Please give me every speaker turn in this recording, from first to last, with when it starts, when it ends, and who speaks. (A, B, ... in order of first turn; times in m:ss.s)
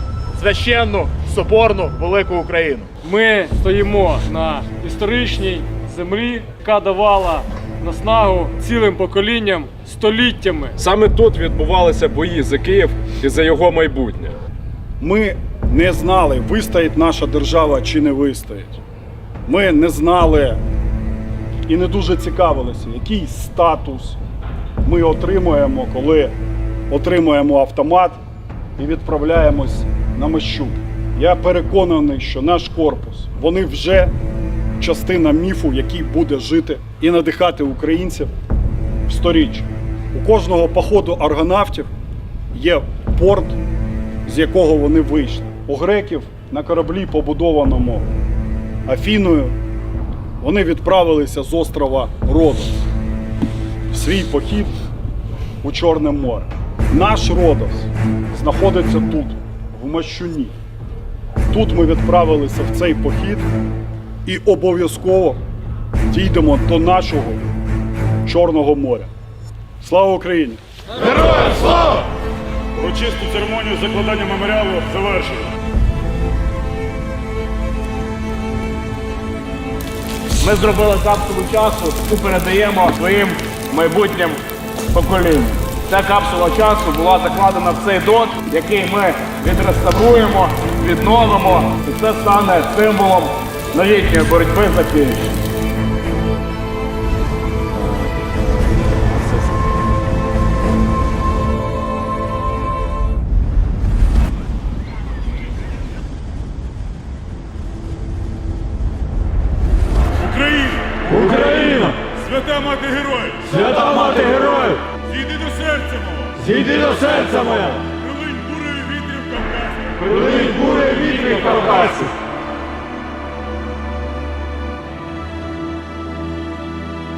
0:00.3-0:02.9 A
0:03.0-0:10.7 B
0:10.8-0:14.3 C
0:15.0-0:18.8 D
0:19.4-0:20.6 D
0:21.7-0:24.2 D
0:24.8-0:26.3 D
0:26.9-0:28.2 D
0:28.8-0:34.1 D
0:34.8-0:38.3 D
0:39.1-0:41.9 D
0:42.5-0:43.6 D
0:44.2-0:48.1 D
0:48.8-0:49.5 D
0:50.4-0:52.7 D
0:53.9-0:54.8 D
0:55.6-1:00.5 D
1:01.5-1:03.5 D
1:04.2-1:05.4 D
1:06.1-1:07.4 D
1:08.2-1:09.1 D
1:09.8-1:10.6 D
1:12.8-1:14.4 E
1:20.4-1:24.4 A
1:24.9-1:35.3 A
1:50.2-1:51.2 E
1:51.2-1:52.0 B
1:52.0-1:56.4 E
1:53.5-1:54.7 B
1:56.4-1:57.8 B
1:58.0-1:59.9 E
2:00.0-2:02.1 B